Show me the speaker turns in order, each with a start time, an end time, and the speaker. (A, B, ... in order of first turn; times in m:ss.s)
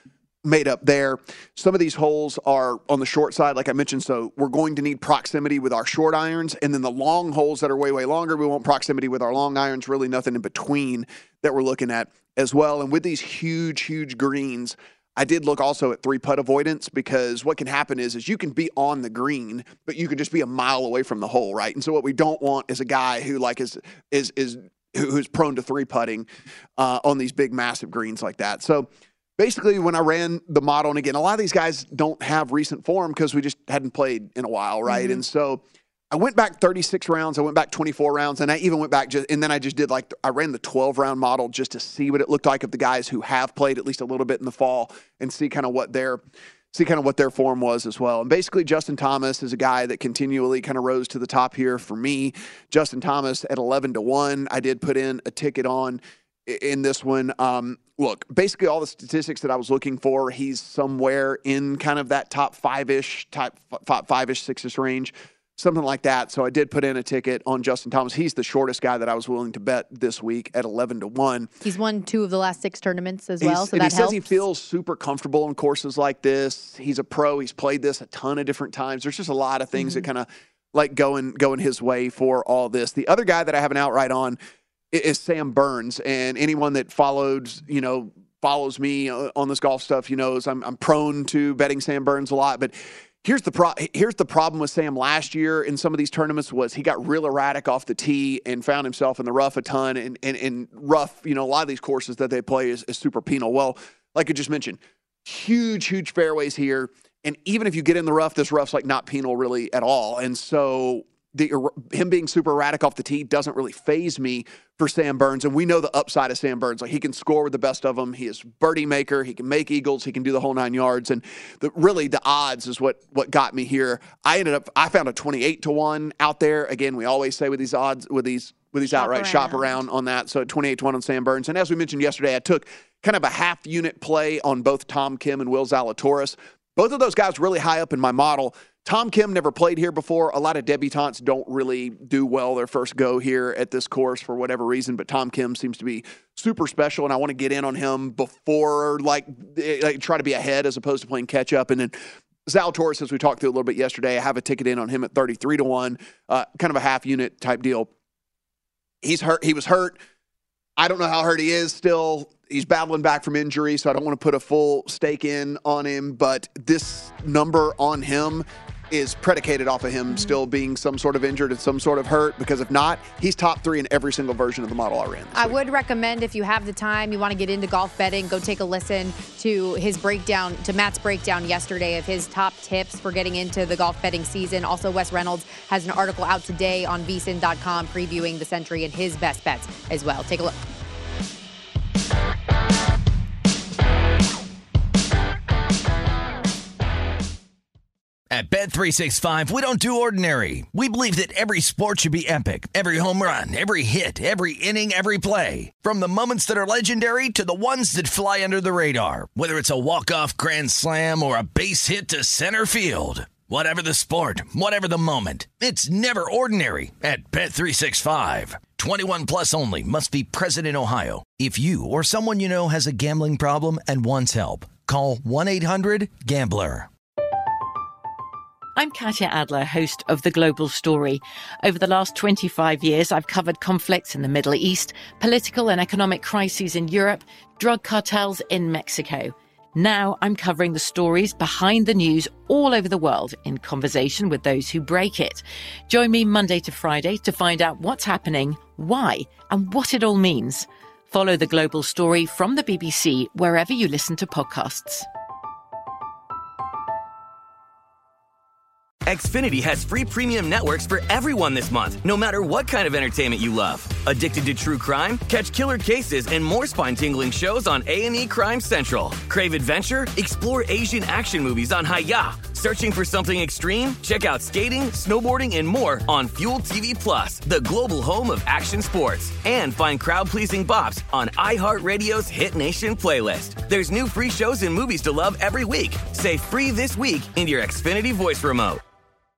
0:00.4-0:46.2 A
0:34.9-0:35.2 B
0:46.7-1:11.5 A
1:11.6-1:14.4 B
1:13.4-1:24.4 A
1:19.8-1:20.0 B
1:24.9-2:37.9 A
2:08.9-2:09.7 B
2:39.0-2:40.0 A
2:40.8-2:55.5 A
2:50.1-2:50.4 B
2:55.3-3:10.5 B
3:18.3-3:46.9 C
3:48.8-4:15.1 D
4:19.0-4:48.8 E